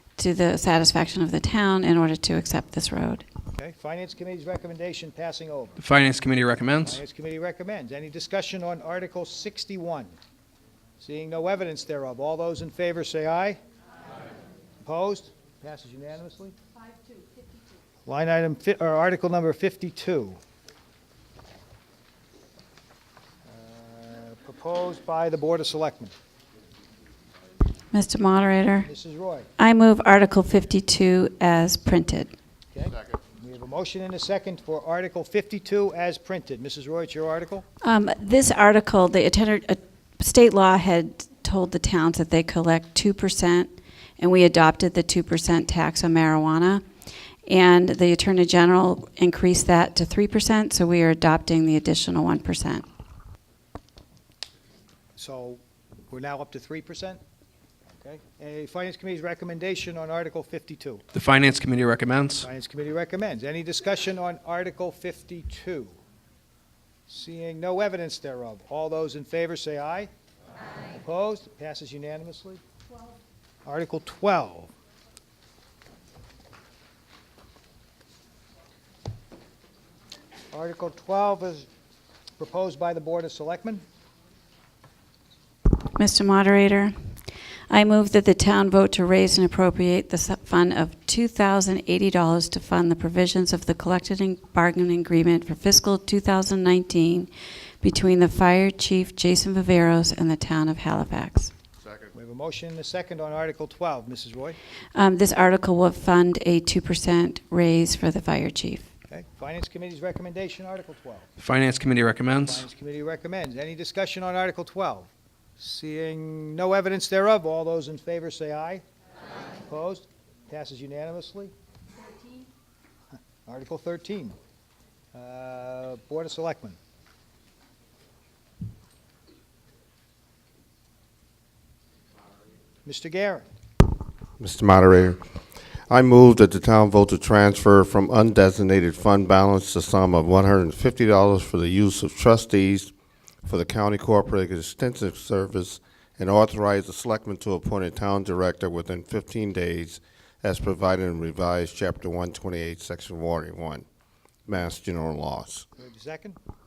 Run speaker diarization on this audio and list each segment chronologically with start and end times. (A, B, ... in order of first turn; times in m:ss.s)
0:00.2-0:03.2 A
0:03.5-0:05.8 B
0:05.8-0:07.0 C
0:06.8-0:10.1 B
0:11.0-0:13.6 B
0:14.8-0:16.5 B
0:18.0-0:20.4 B
0:23.4-0:26.1 B
0:27.9-0:28.9 A
0:28.8-0:29.5 B
0:29.6-0:32.3 A
0:32.7-0:37.6 B
0:37.8-0:46.8 A
0:47.4-0:52.8 A
0:55.2-0:57.2 B
0:58.0-1:01.0 B
1:01.1-1:02.5 C
1:02.4-1:05.9 B
1:07.1-1:10.1 B
1:10.9-1:12.6 B
1:13.6-1:14.7 B
1:20.5-1:21.7 B
1:22.4-1:23.8 B
1:25.9-1:26.9 A
1:27.7-1:37.3 A
1:37.8-1:41.5 A
1:42.1-1:44.6 B
1:44.9-1:48.9 A
1:49.1-1:51.3 B
1:51.4-1:52.6 C
1:52.4-1:58.8 B
1:59.6-2:01.5 B
2:03.4-2:04.4 B
2:05.1-2:06.8 B
2:12.8-2:13.5 B
2:14.4-2:15.2 D
2:15.9-2:22.9 D
2:23.4-2:33.8 D
2:34.5-2:35.7 D
2:35.8-2:36.4 B